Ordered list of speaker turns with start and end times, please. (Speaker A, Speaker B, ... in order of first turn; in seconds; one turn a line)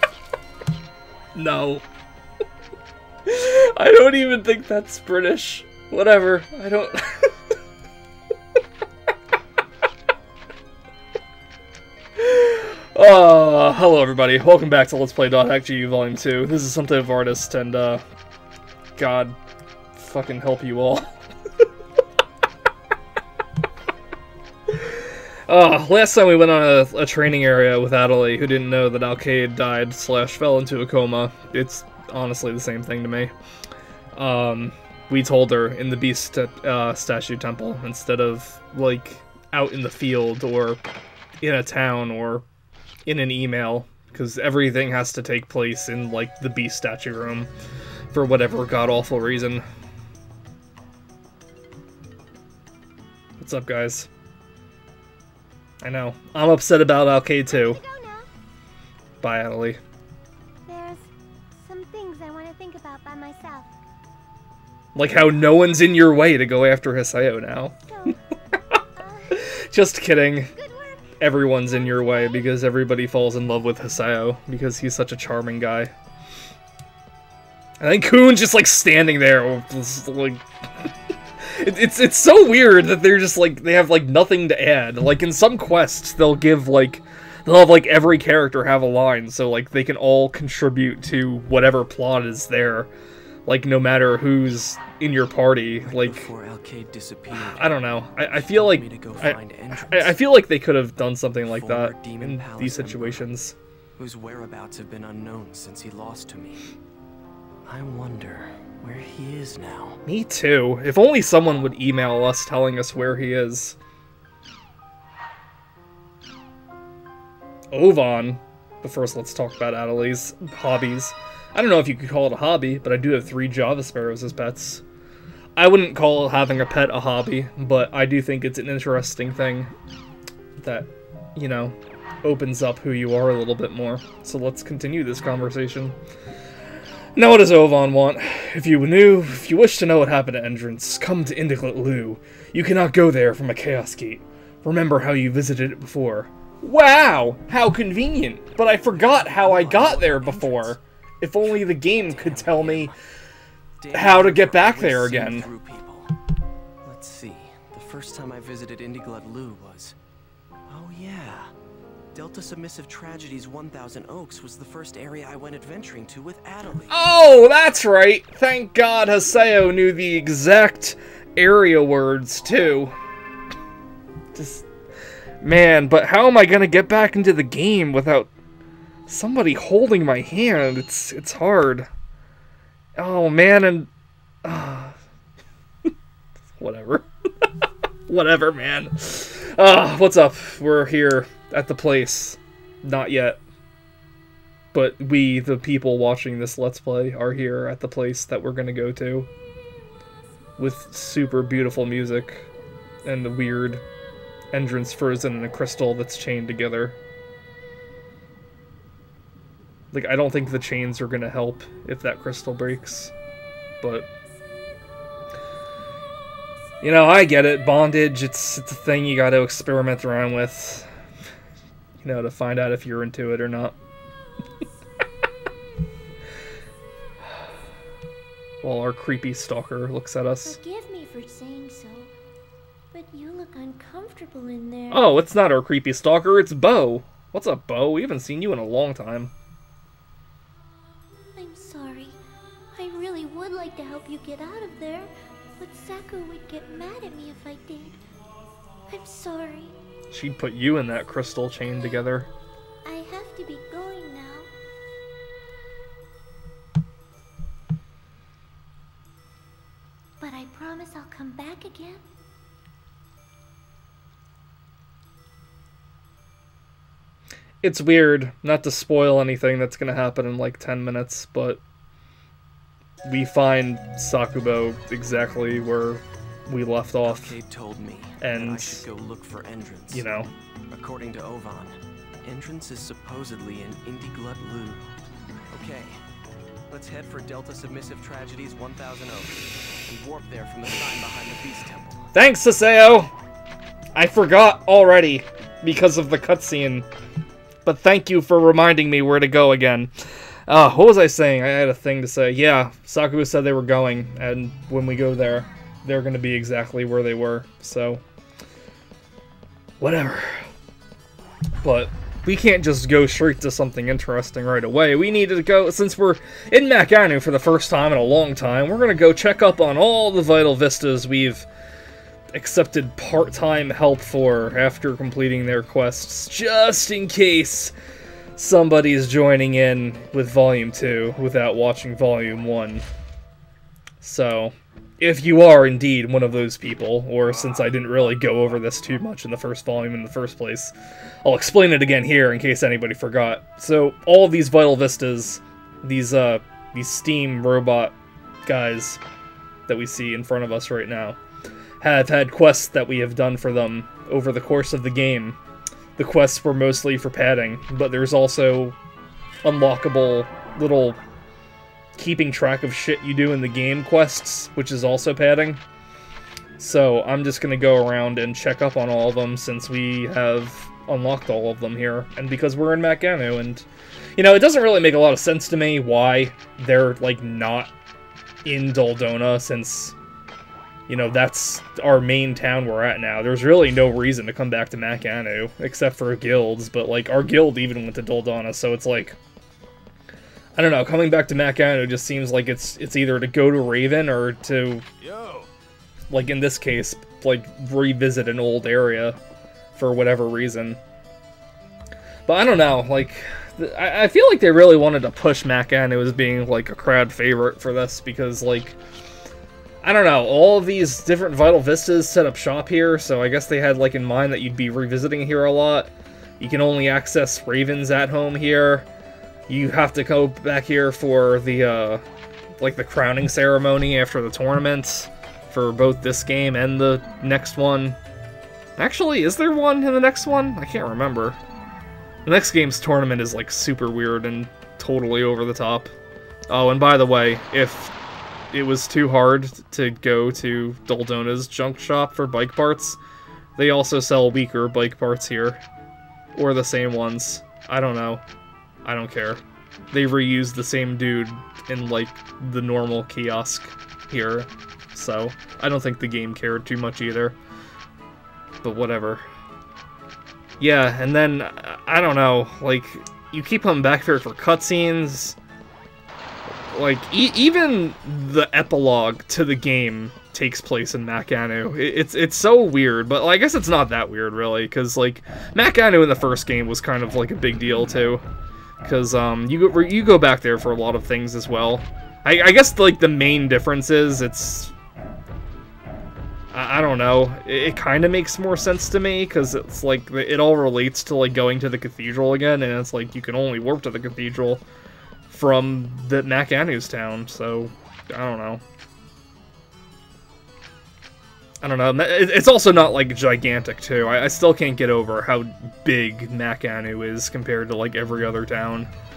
Speaker A: 1.4-1.8
Speaker A: 3.3-7.3
Speaker A: 12.2-18.0
Speaker A: 19.0-19.4
Speaker A: 20.0-21.1
Speaker A: 24.7-33.3
Speaker A: 34.1-40.8
Speaker A: 41.4-42.5
Speaker A: 43.1-47.5
Speaker A: 48.1-49.6
Speaker A: 53.4-54.1
Speaker A: 55.8-57.8
Speaker B: 57.5-58.3
Speaker A: 59.2-59.8
Speaker B: 60.6-63.7
Speaker A: 65.0-68.2
Speaker B: 67.9-68.2
Speaker B: 68.9-69.5
Speaker A: 69.3-70.5
Speaker B: 70.5-72.6
Speaker A: 71.2-75.9
Speaker A: 77.8-80.9
Speaker A: 81.4-92.9
Speaker A: 93.5-96.3
Speaker C: 95.8-100.2
Speaker A: 97.3-103.5
Speaker C: 101.4-103.3
Speaker C: 104.0-106.6
Speaker C: 107.7-110.0
Speaker A: 110.1-113.8
Speaker A: 117.7-124.8
Speaker A: 125.6-129.7
Speaker A: 130.6-136.0
Speaker A: 137.2-152.9
Speaker C: 148.9-150.8
Speaker C: 151.4-153.0
Speaker C: 153.8-156.1
Speaker A: 153.9-155.5
Speaker C: 156.8-159.9
Speaker C: 160.7-161.5
Speaker C: 162.1-166.9
Speaker A: 166.9-172.9
Speaker A: 174.3-174.7
Speaker A: 175.4-178.3
Speaker A: 179.1-181.9
Speaker A: 183.0-183.9
Speaker A: 184.4-185.0
Speaker A: 186.6-187.1
Speaker A: 188.1-193.4
Speaker A: 194.7-199.3
Speaker A: 200.6-202.5
Speaker A: 203.0-203.8
Speaker A: 204.5-207.0
Speaker A: 209.9-213.1
Speaker A: 213.8-214.1
Speaker A: 216.8-220.9
Speaker A: 222.0-223.8
Speaker A: 228.6-230.6
Speaker B: 230.4-232.1
Speaker B: 232.9-235.1
Speaker A: 234.9-239.3
Speaker B: 241.3-242.2
Speaker B: 242.7-248.0
Speaker B: 248.9-249.8
Speaker A: 250.1-252.3
Speaker B: 252.8-254.5
Speaker B: 260.2-262.1
Speaker A: 267.6-271.6
Speaker A: 273.1-277.4
Speaker C: 277.0-280.1
Speaker A: 278.2-278.9
Speaker A: 279.9-280.3
Speaker C: 280.7-284.8
Speaker C: 285.5-286.0
Speaker C: 286.7-292.1
Speaker A: 292.1-293.1
Speaker A: 294.0-296.9
Speaker A: 297.6-299.9
Speaker A: 300.5-308.0
Speaker A: 309.8-310.5
Speaker A: 311.6-321.5
Speaker A: 322.3-327.7
Speaker A: 328.4-332.9
Speaker A: 334.0-349.0
Speaker A: 349.7-351.2
Speaker A: 351.8-355.4
Speaker A: 356.0-358.8
Speaker A: 359.4-361.0
Speaker A: 362.0-365.6
Speaker A: 366.6-377.7
Speaker A: 378.4-379.9
Speaker A: 380.9-389.2
Speaker A: 390.6-394.9
Speaker C: 395.1-395.4
Speaker A: 396.1-399.2
Speaker A: 399.8-400.8
Speaker A: 402.3-408.8
Speaker A: 409.8-418.9
Speaker A: 419.5-422.0
Speaker A: 422.6-428.0
Speaker A: 428.8-431.4
Speaker A: 432.2-435.9
Speaker A: 436.5-437.9
Speaker A: 438.5-443.0
Speaker A: 443.6-445.6
Speaker A: 446.4-448.2
Speaker A: 448.9-457.4
Speaker A: 458.6-459.2
Speaker A: 460.6-465.4
Speaker A: 466.7-478.2
Speaker A: 478.8-484.7
Speaker A: 486.5-494.6
Speaker A: 495.3-498.6
Speaker A: 501.6-508.9